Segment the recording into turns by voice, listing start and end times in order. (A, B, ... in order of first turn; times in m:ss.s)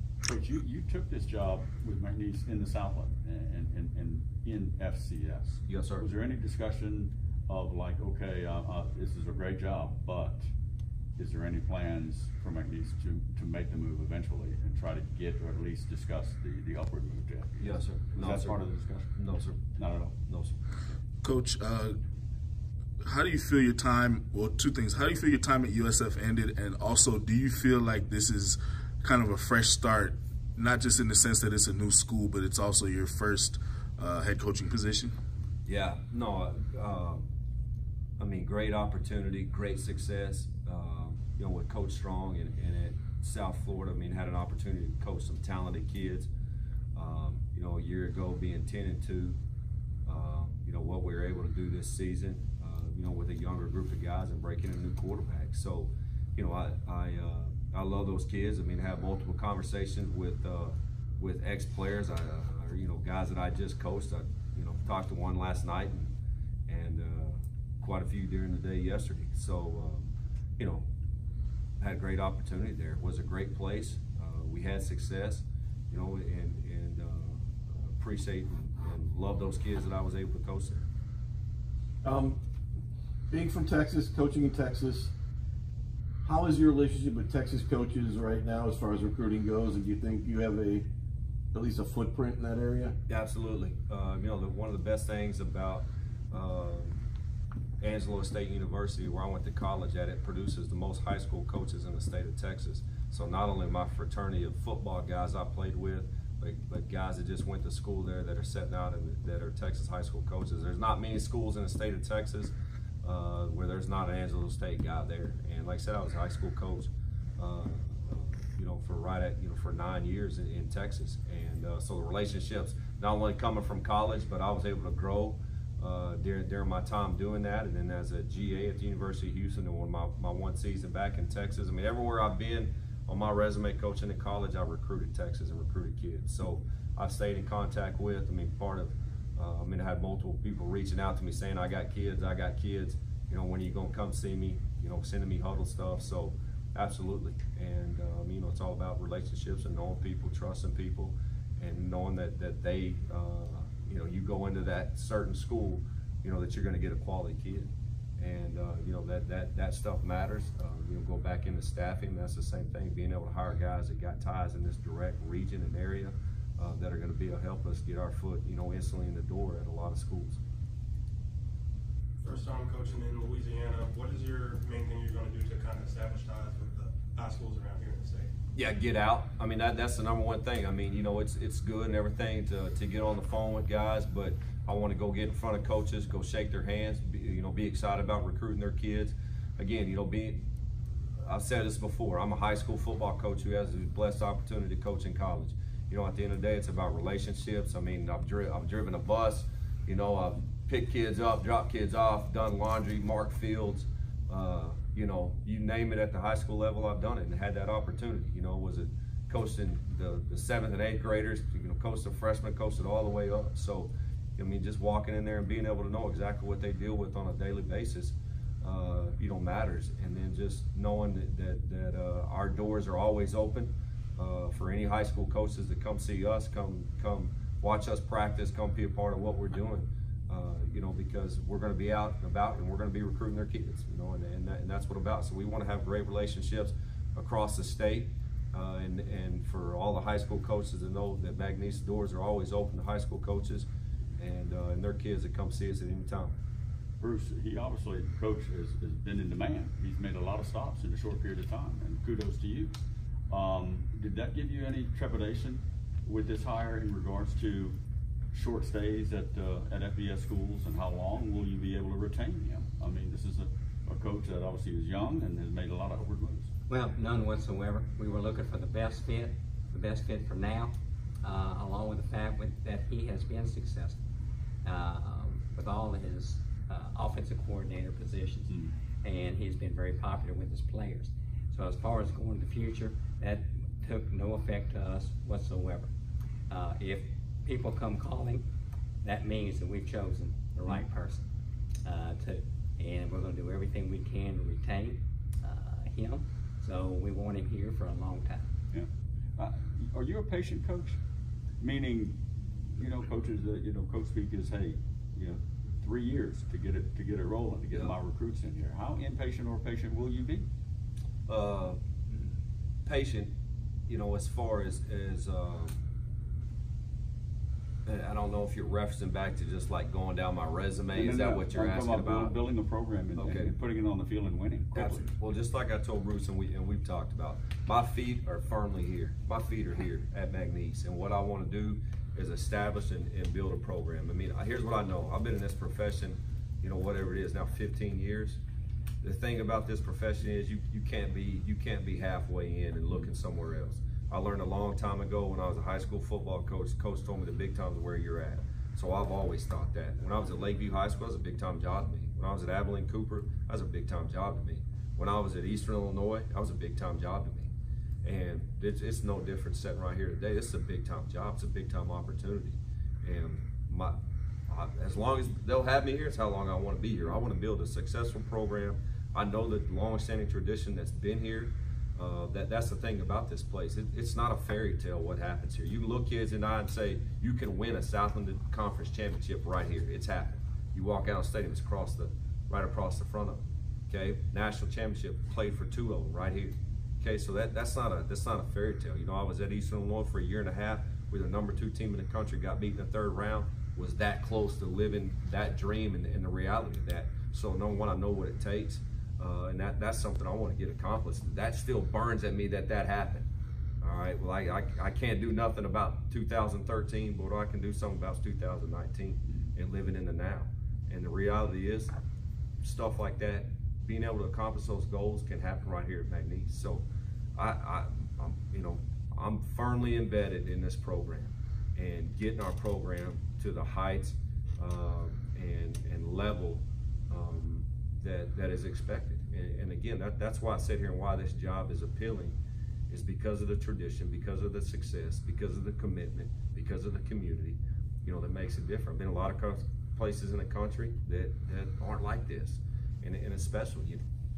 0:00.2-0:10.5 A
0:05.7-0:06.1 B
0:11.2-0:19.2 A
0:17.6-0:18.6 B
0:19.2-0:19.6 B
0:19.8-0:20.2 A
0:20.2-0:20.6 B
0:21.2-0:22.0 C
0:23.0-0:35.2 C
0:35.7-0:37.3 B
0:38.2-0:46.3 B
0:47.0-0:49.4 B
0:50.1-1:06.1 B
1:06.7-1:10.9 B
1:11.8-1:20.9 B
1:22.0-1:22.4 D
1:23.3-1:25.1 D
1:26.2-1:30.9 D
1:31.5-1:33.0 D
1:33.1-1:37.0 B
1:37.8-2:50.4 B
2:52.2-2:58.3 E
2:58.5-3:10.5 B
3:11.2-4:06.4 B
4:07.0-4:12.7 A
4:13.3-4:17.8 A
4:18.3-4:26.5 A
4:26.7-4:34.0 F
4:34.6-4:45.9 F
4:38.5-4:38.7 A
4:46.5-4:48.5 F
4:49.0-4:51.2 F
4:51.8-4:58.5 F
4:58.7-5:01.0 A
5:01.6-5:10.5 A
5:07.7-5:08.0 B
5:11.3-5:11.8 B
5:12.8-5:13.4 B
5:13.9-5:15.8 B
5:17.9-5:22.4 B
5:20.9-5:25.1 A
5:23.2-5:23.5 B
5:24.7-5:38.4 B
5:39.0-6:04.0 B
6:04.5-6:43.3 B
6:43.8-6:51.9 B
6:52.6-6:56.8 B
6:57.4-7:12.4 B
7:12.9-7:24.0 B